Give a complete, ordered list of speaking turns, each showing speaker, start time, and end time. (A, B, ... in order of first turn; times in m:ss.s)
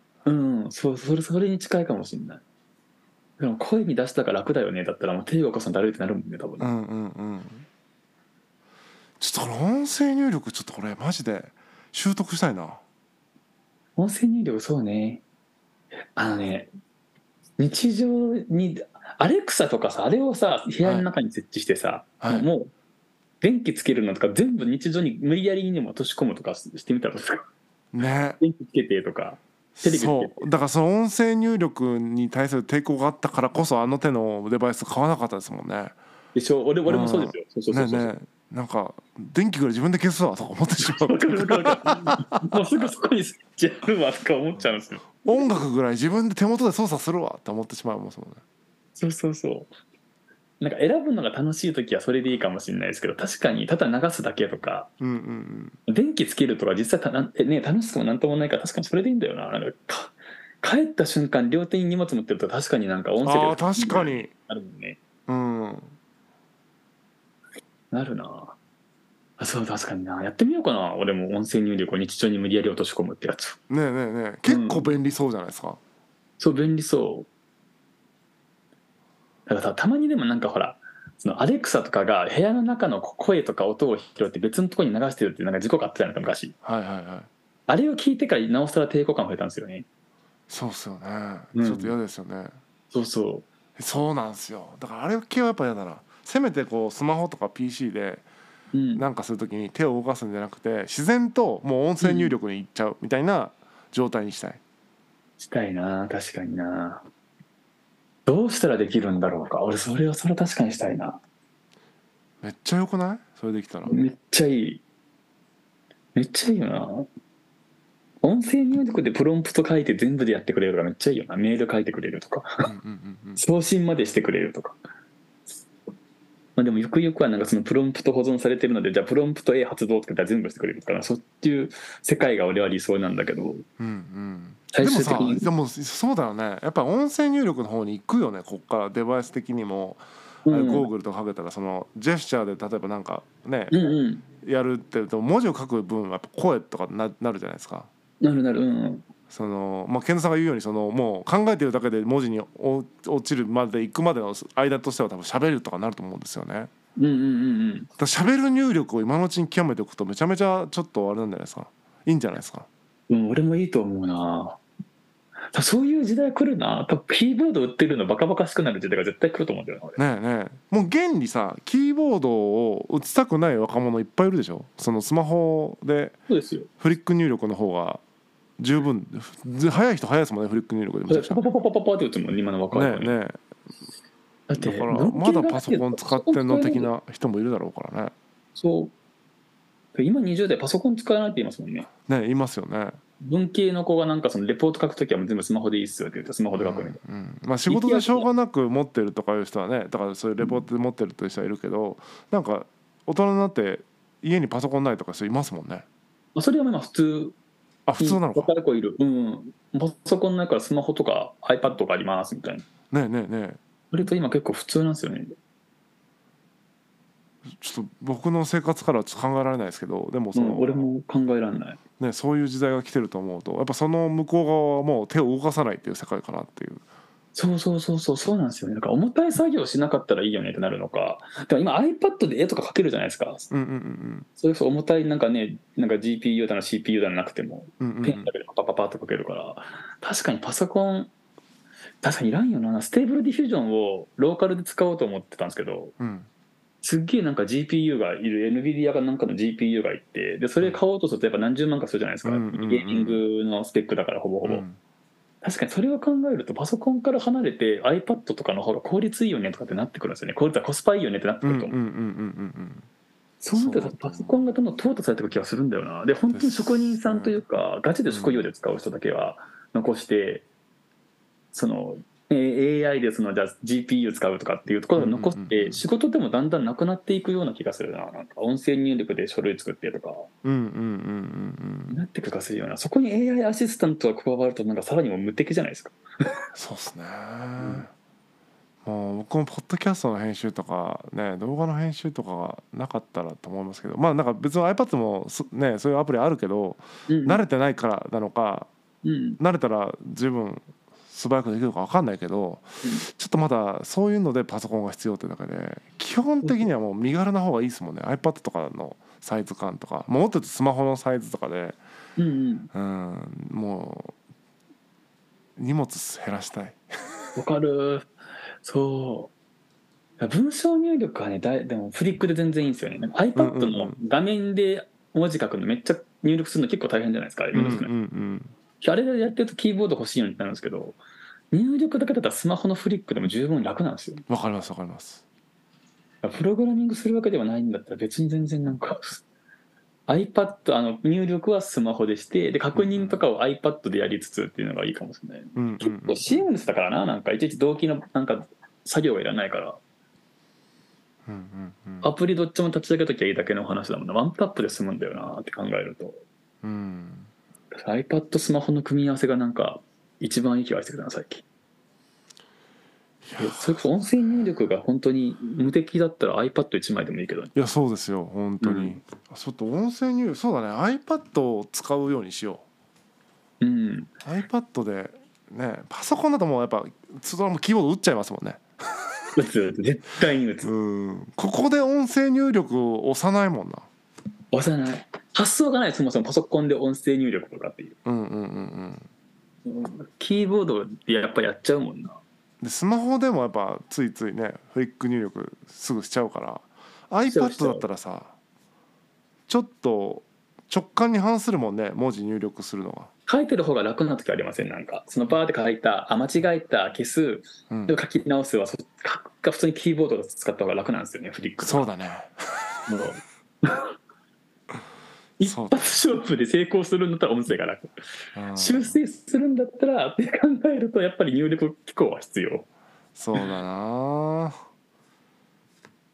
0:00.2-0:02.4 A
0:03.4-0:06.7 A
0:06.6-0:07.7 B
0:09.2-0:12.8 B
0:14.0-0:15.2 A
0:16.2-0:16.7 A
0:17.6-0:22.7 A
0:20.8-0:21.1 B
0:22.2-0:22.5 B
0:23.4-0:27.5 A
0:27.9-0:28.4 B
0:28.4-0:30.5 A
0:29.8-0:36.0 B
0:36.4-0:38.1 A
0:36.9-0:42.6 B
0:40.8-0:45.5 A
0:45.2-0:48.4 B
0:49.0-0:49.7 A
0:50.6-0:54.9 A
0:55.0-0:55.8 B
0:55.9-1:05.0 A
1:03.2-1:04.3 B
1:05.3-1:06.0 B
1:07.9-1:08.6 A
1:09.4-1:13.6 A
1:13.7-1:15.8 B
1:14.5-1:14.9 A
1:16.4-1:17.3 A
1:19.5-1:26.5 A
1:26.6-1:27.3 B
1:27.7-1:29.9 A
1:30.5-1:32.6 B
1:31.6-1:31.9 A
1:32.9-1:33.5 A
1:33.8-1:38.2 B
1:38.7-1:39.0 A
1:39.0-1:44.6 B
1:42.0-1:42.3 A
1:45.4-1:47.0 A
1:48.3-1:51.2 A
1:52.4-1:54.0 B
1:53.9-1:54.8 A
1:56.2-1:57.1 A
1:58.2-2:02.6 A
2:02.6-2:03.4 B
2:03.4-2:04.8 A
2:06.6-2:13.7 A
2:13.8-2:23.8 B
2:14.7-2:15.5 A
2:20.5-2:20.9 A
2:23.7-2:24.2 A
2:24.4-2:27.9 B
2:28.2-2:29.0 A
2:29.3-2:36.7 B
2:37.0-2:37.9 A
2:38.0-2:42.7 B
2:43.1-2:44.6 A
2:45.5-2:50.0 A
2:50.0-2:56.2 B
2:56.3-2:56.7 A
2:56.8-2:58.0 B
2:58.6-3:01.4 B
3:01.1-3:03.2 A
3:02.7-3:03.4 B
3:04.5-3:06.9 A
3:04.6-3:08.1 B
3:08.6-3:08.9 A
3:10.0-3:11.9 A
3:12.1-3:13.0 B
3:13.2-3:17.0 A
3:16.6-3:25.9 B
3:17.7-3:18.3 A
3:26.4-3:27.4 A
3:27.9-3:28.5 B
3:28.0-3:32.7 A
3:32.9-3:33.6 B
3:33.9-3:35.4 A
3:37.5-3:40.9 B
3:40.3-3:41.8 A
3:42.0-3:46.8 B
3:47.4-3:53.5 A
3:53.5-3:54.3 B
3:54.4-4:01.1 A
3:57.8-3:58.3 B
4:02.0-4:06.0 A
4:06.0-4:06.3 B
4:06.8-4:14.6 A
4:12.2-4:13.2 B
4:14.4-4:14.8 B
4:15.4-4:21.8 A
4:21.4-4:22.9 B
4:23.4-4:30.4 A
4:23.5-4:24.4 B
4:26.3-4:27.4 B
4:28.1-4:28.5 B
4:31.5-4:40.3 A
4:35.0-4:35.8 B
4:40.4-4:42.0 B
4:41.9-4:46.0 A
4:46.5-4:47.9 B
4:48.8-4:58.7 B
4:57.1-4:57.4 A
4:59.0-4:59.4 A
4:59.4-5:11.8 B
5:06.4-5:06.7 A
5:12.2-5:12.7 A
5:12.7-5:14.2 B
5:15.6-5:16.8 B
5:17.4-5:19.3 A
5:20.2-5:27.9 A
5:23.4-5:24.0 B
5:27.5-5:28.5 B
5:28.8-5:31.0 A
5:31.5-5:34.2 A
5:34.3-5:35.2 B
5:36.2-5:39.2 A
5:40.1-5:49.8 A
5:42.7-5:43.2 B
5:45.6-5:46.5 B
5:51.3-5:52.1 B
5:52.0-5:56.2 A
5:56.6-5:57.3 B
5:57.7-6:01.4 A
6:03.2-6:03.8 B
6:03.4-6:07.5 A
6:07.6-6:12.6 B
6:08.6-6:09.0 A
6:13.6-6:14.1 A
6:14.2-6:19.4 B
6:19.4-6:20.7 A
6:20.6-6:23.9 B
6:24.5-6:28.0 A
6:28.0-6:29.1 B
6:29.7-6:32.2 A
6:32.6-6:38.3 B
6:37.3-6:37.8 A
6:39.5-6:43.1 B
6:43.3-6:51.9 A
6:47.7-6:48.0 B
6:51.6-6:52.9 B
6:52.9-6:53.9 A
6:55.4-6:57.9 A
6:55.4-6:56.0 B
6:58.4-6:59.0 B
6:58.6-7:02.7 A
7:03.2-7:04.6 B